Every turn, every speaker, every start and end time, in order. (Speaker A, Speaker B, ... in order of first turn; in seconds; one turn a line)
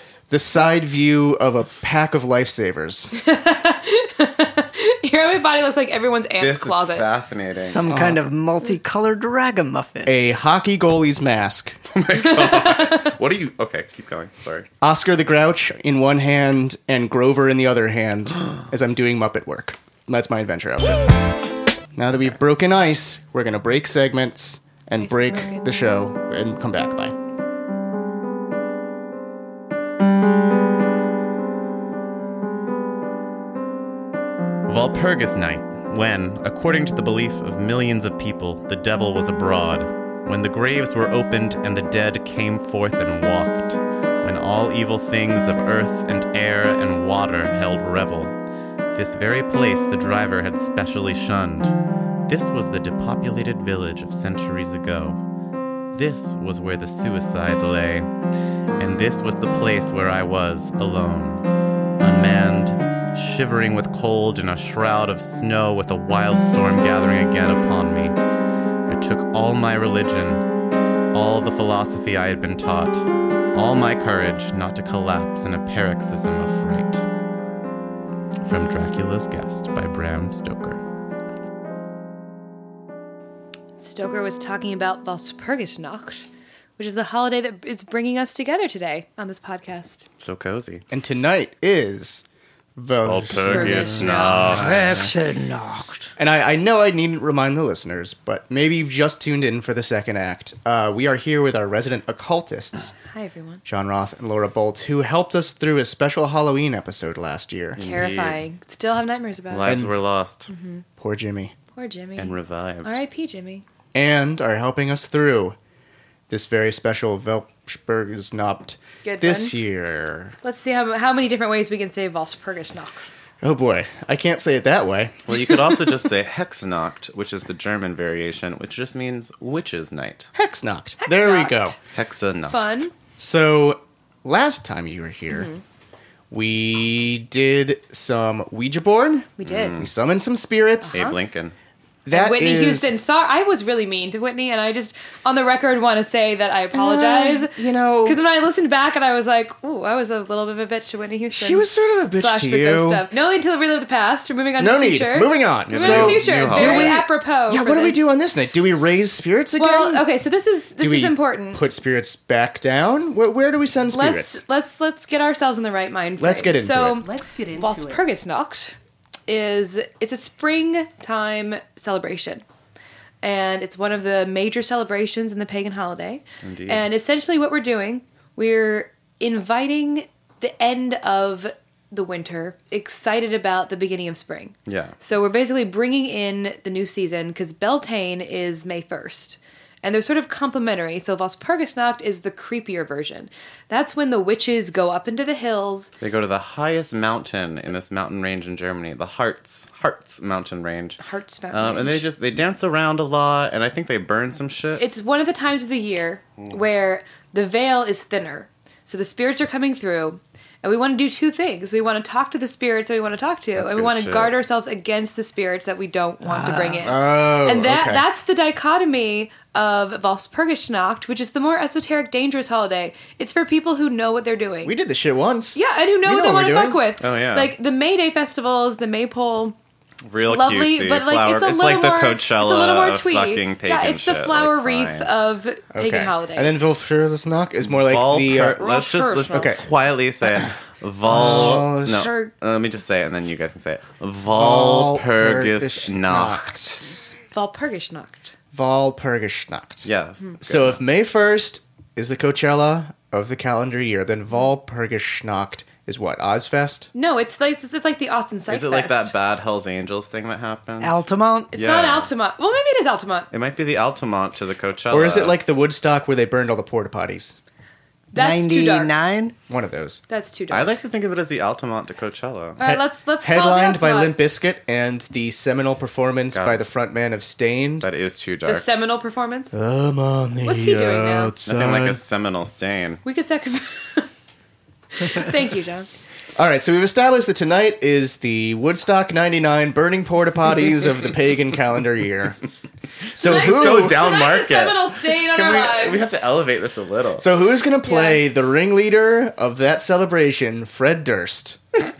Speaker A: 0.3-3.1
Speaker B: 3.1-7.0
Speaker C: 6.4-7.8
Speaker D: 7.5-10.1
Speaker A: 7.9-8.2
Speaker A: 10.1-11.8
Speaker C: 11.9-14.7
Speaker B: 12.2-13.0
Speaker A: 14.8-21.1
Speaker A: 21.9-27.1
Speaker B: 25.0-25.7
Speaker C: 34.7-48.3
Speaker C: 48.9-51.7
Speaker C: 52.3-55.2
Speaker C: 55.9-58.1
Speaker C: 58.8-61.5
Speaker C: 62.0-68.2
Speaker C: 68.9-70.5
Speaker C: 71.1-77.0
Speaker C: 78.4-80.8
Speaker B: 83.8-86.2
Speaker B: 86.8-90.0
Speaker C: 90.2-90.8
Speaker A: 90.9-92.2
Speaker A: 92.8-95.0
Speaker C: 93.0-95.1
Speaker B: 93.4-94.6
Speaker D: 94.5-96.1
Speaker A: 96.2-102.9
Speaker B: 103.1-103.6
Speaker A: 103.7-107.8
Speaker C: 107.8-108.4
Speaker B: 107.8-109.7
Speaker C: 109.5-110.5
Speaker A: 109.6-109.9
Speaker B: 110.5-110.8
Speaker A: 111.0-111.5
Speaker B: 111.8-113.6
Speaker C: 112.2-113.0
Speaker A: 113.9-115.5
Speaker A: 116.3-120.3
Speaker B: 119.0-119.5
Speaker B: 120.4-123.0
Speaker A: 123.4-125.2
Speaker C: 125.3-130.3
Speaker A: 130.3-131.8
Speaker B: 131.0-131.7
Speaker C: 131.9-132.9
Speaker B: 132.5-132.9
Speaker A: 133.2-135.5
Speaker B: 135.3-135.6
Speaker A: 136.3-141.0
Speaker B: 139.4-139.8
Speaker C: 139.4-139.9
Speaker B: 140.8-141.2
Speaker C: 140.9-141.5
Speaker A: 142.0-142.9
Speaker B: 142.1-158.2
Speaker A: 146.7-148.2
Speaker A: 151.3-153.1
Speaker A: 154.6-160.1
Speaker C: 155.7-157.0
Speaker B: 159.6-161.6
Speaker A: 160.8-164.4
Speaker B: 163.9-168.7
Speaker A: 166.2-167.1
Speaker B: 169.3-172.4
Speaker B: 173.2-195.9
Speaker C: 176.4-176.8
Speaker C: 184.7-184.9
Speaker C: 196.0-201.0
Speaker B: 201.0-202.0
Speaker C: 201.5-204.8
Speaker B: 204.8-224.7
Speaker C: 213.6-214.3
Speaker D: 216.2-216.8
Speaker A: 216.8-218.0
Speaker A: 224.6-226.8
Speaker B: 225.5-229.6
Speaker C: 227.0-227.5
Speaker C: 230.1-235.1
Speaker B: 230.2-236.6
Speaker A: 235.7-238.6
Speaker C: 237.6-246.8
Speaker B: 238.6-239.5
Speaker A: 239.3-239.6
Speaker A: 241.0-242.1
Speaker B: 241.2-242.3
Speaker A: 244.3-246.9
Speaker B: 247.3-248.3
Speaker A: 248.5-249.9
Speaker C: 249.8-250.8
Speaker A: 250.4-256.9
Speaker B: 256.9-259.1
Speaker C: 258.5-262.1
Speaker D: 260.8-261.5
Speaker B: 261.5-263.3
Speaker C: 263.3-265.4
Speaker A: 264.9-267.4
Speaker B: 268.1-268.9
Speaker D: 268.1-269.3
Speaker A: 269.5-270.0
Speaker B: 270.1-270.7
Speaker C: 270.5-272.6
Speaker B: 272.6-274.1
Speaker A: 272.6-277.9
Speaker C: 276.3-276.6
Speaker C: 277.8-278.7
Speaker B: 278.4-279.5
Speaker A: 279.5-282.0
Speaker B: 280.4-281.3
Speaker C: 281.4-283.0
Speaker B: 283.0-284.1
Speaker B: 284.9-285.9
Speaker A: 286.4-292.4
Speaker A: 293.1-294.0
Speaker C: 293.2-297.3
Speaker B: 293.2-296.1
Speaker A: 297.2-301.6
Speaker B: 297.8-298.2